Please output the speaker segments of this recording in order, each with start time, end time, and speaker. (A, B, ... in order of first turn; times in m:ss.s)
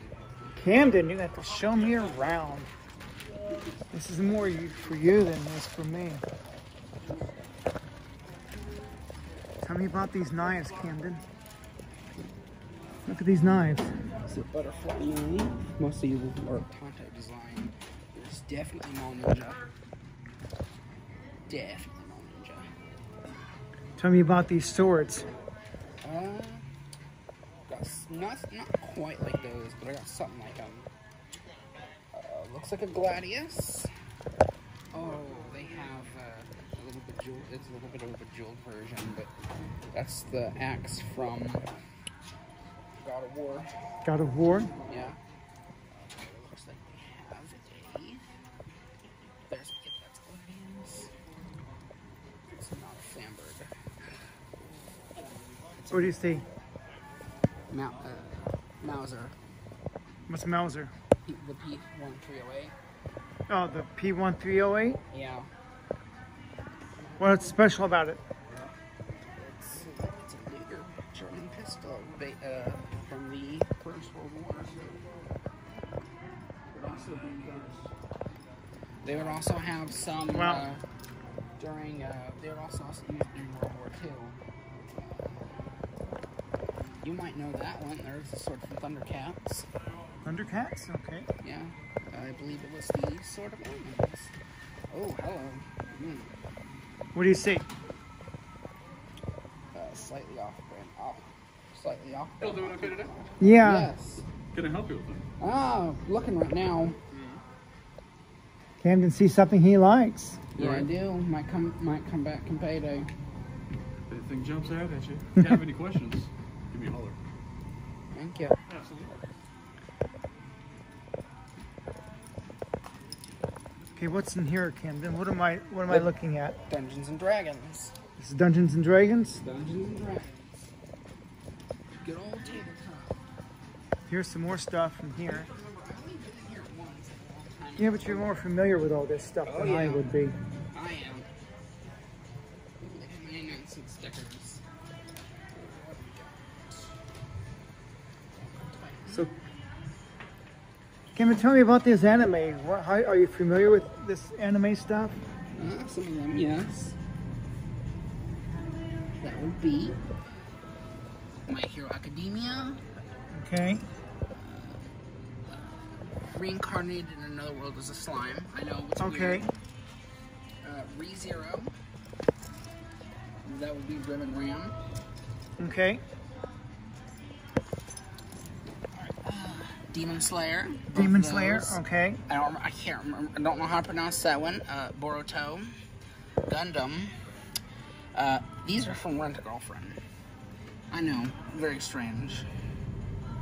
0:00.6-0:02.7 A
0:03.9-0:06.2 A
0:09.6-0:11.2 A
0:13.0-0:13.9 A
0:14.2-0:19.7 B
0:21.5-0:22.7 B
0:24.0-0:25.2 A
0:26.0-0:26.7 B
0:27.7-0:30.9 B
0:32.1-0:33.9 B
0:34.9-0:39.3 B
0:39.9-0:41.7 B
0:43.0-0:43.7 B
0:44.0-0:44.7 A
0:44.8-0:45.2 B
0:45.9-0:48.3 B
0:49.5-0:51.1 B
0:52.5-0:53.7 B
0:55.8-0:56.2 B
0:55.9-0:56.4 A
0:57.7-0:59.3 B
1:00.3-1:00.9 A
1:01.2-1:02.8 B
1:03.5-1:05.0 A
1:05.1-1:05.5 B
1:07.2-1:08.2 A
1:09.3-1:14.9 B
1:16.7-1:17.9 B
1:19.0-1:20.8 B
1:20.3-1:20.6 A
1:21.6-1:24.4 B
1:25.0-1:25.5 B
1:27.0-1:29.7 B
1:30.2-1:31.3 A
1:31.4-1:34.3 B
1:34.9-1:36.3 B
1:37.1-1:37.7 A
1:39.7-1:44.2 B
1:42.4-1:43.1 C
1:43.4-1:43.9 A
1:44.5-1:45.2 C
1:45.4-1:47.0 B
1:47.1-1:47.4 C
1:48.8-1:50.4 A
1:50.6-1:50.9 C
1:50.6-1:53.1 B
1:54.1-1:57.2 C
1:58.1-1:58.6 B
1:58.7-1:59.2 C
2:04.0-2:06.6 A
2:06.7-2:08.0 B
2:08.2-2:09.4 A
2:09.4-2:10.7 B
2:12.0-2:13.2 B
2:14.1-2:15.5 A
2:15.3-2:18.3 B
2:17.8-2:20.4 A
2:19.4-2:20.1 B
2:20.7-2:21.3 B
2:22.8-2:24.6 B
2:25.5-2:26.9 B
2:28.3-2:29.3 B
2:31.1-2:35.2 A
2:35.5-2:37.0 B
2:39.2-2:40.0 B
2:41.4-2:42.8 B
2:43.3-2:43.8 A
2:44.4-2:44.8 B
2:45.5-2:49.5 B
2:49.0-2:49.5 A
2:50.6-2:51.7 B
2:53.4-2:54.8 B
2:55.6-2:56.0 A
2:58.9-3:05.7 B
3:00.9-3:02.2 A
3:06.4-3:07.3 B
3:08.1-3:10.0 B
3:10.9-3:12.5 B